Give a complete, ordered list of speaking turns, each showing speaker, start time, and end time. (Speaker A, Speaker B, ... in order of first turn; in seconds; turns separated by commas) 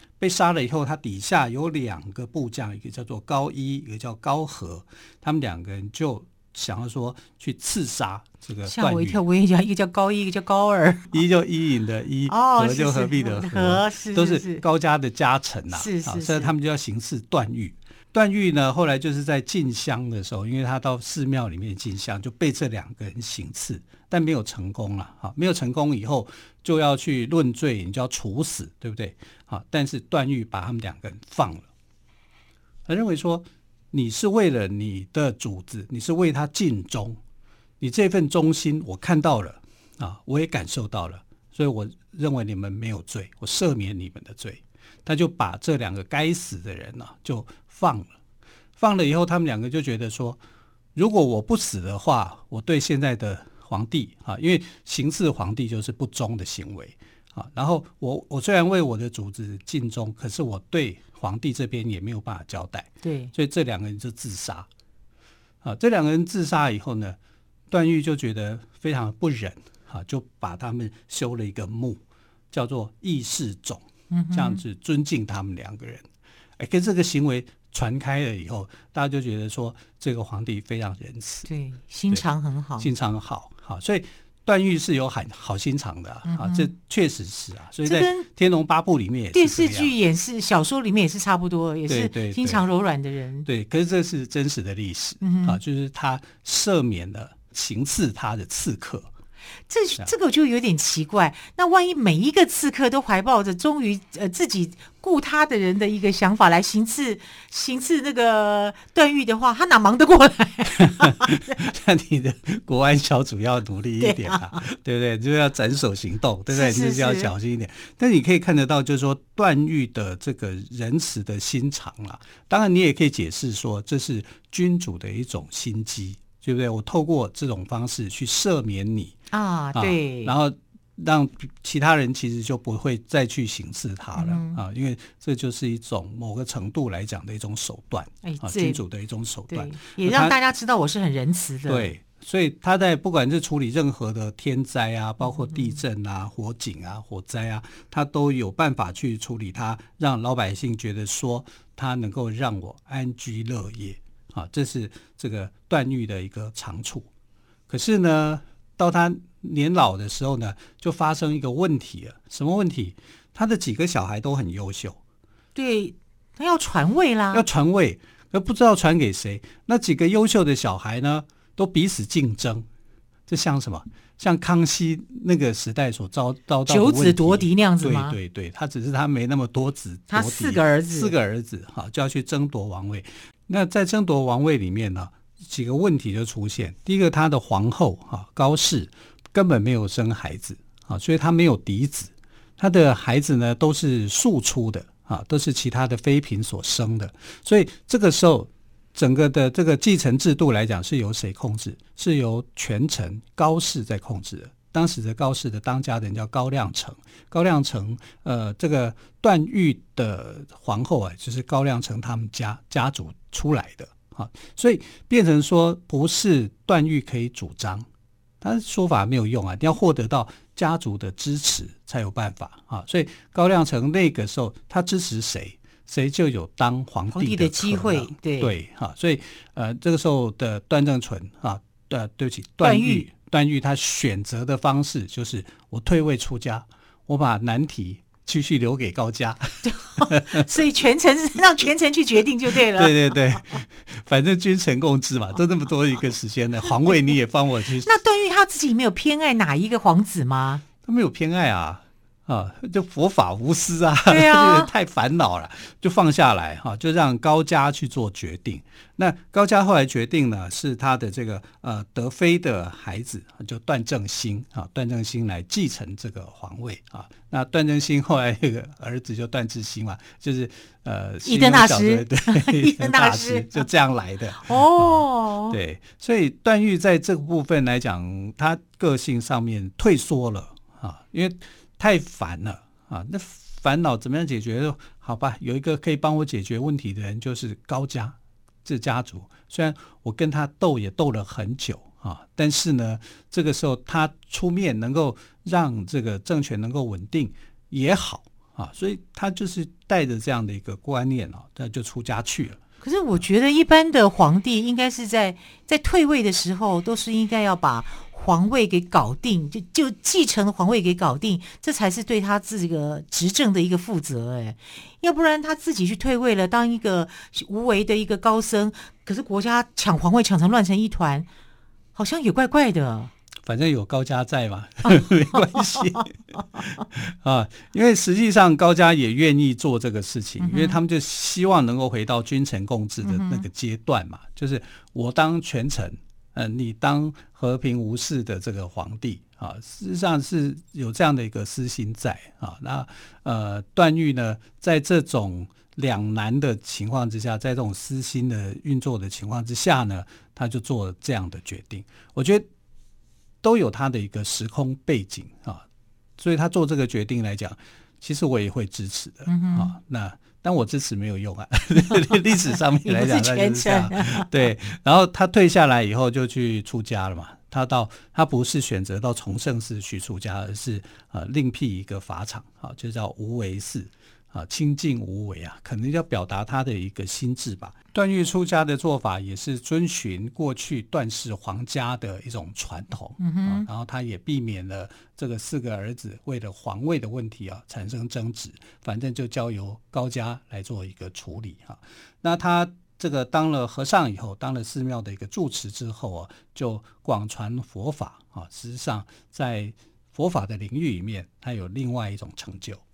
Speaker A: 0.2-9.2, Speaker B: 8.7-11.2, Speaker A: 11.1-31.7, Speaker B: 12.3-14.6, Speaker B: 15.7-16.5, Speaker A: 32.9-37.2, Speaker A: 37.8-48.1, Speaker A: 48.8-50.4, Speaker A: 50.9-64.7, Speaker B: 63.0-63.3, Speaker A: 65.6-67.2, Speaker A: 67.7-72.0, Speaker A: 72.5-81.5, Speaker B: 74.1-74.6, Speaker B: 81.5-82.9, Speaker A: 82.8-89.9, Speaker B: 86.2-86.7, Speaker B: 87.8-88.3, Speaker B: 89.3-93.5, Speaker A: 91.9-92.7, Speaker A: 93.5-99.1, Speaker B: 95.2-95.6, Speaker B: 99.7-111.6, Speaker A: 110.8-129.1, Speaker B: 114.0-114.6, Speaker B: 116.5-117.3, Speaker B: 129.3-130.3, Speaker A: 129.7-140.3, Speaker B: 134.1-134.6, Speaker B: 138.2-138.8, Speaker B: 139.5-141.9, Speaker A: 141.7-157.1, Speaker B: 145.2-145.8, Speaker A: 157.7-165.0, Speaker B: 165.5-167.4, Speaker A: 167.3-172.7, Speaker A: 173.3-217.9, Speaker B: 176.7-178.2, Speaker B: 180.1-181.1, Speaker A: 218.4-240.4, Speaker B: 227.1-228.5, Speaker B: 232.6-233.1, Speaker B: 239.6-243.2, Speaker A: 242.7-247.9, Speaker B: 247.8-250.6, Speaker A: 250.8-302.6, Speaker B: 254.1-254.7, Speaker B: 271.2-273.6, Speaker B: 274.3-275.6, Speaker B: 302.8-321.3, Speaker B: 321.9-323.1, Speaker A: 323.4-352.5, Speaker B: 324.8-326.0, Speaker B: 330.4-330.8, Speaker B: 333.0-333.5, Speaker A: 353.4-355.6, Speaker A: 356.2-402.8, Speaker B: 359.3-359.7, Speaker B: 362.8-364.3, Speaker B: 383.2-383.7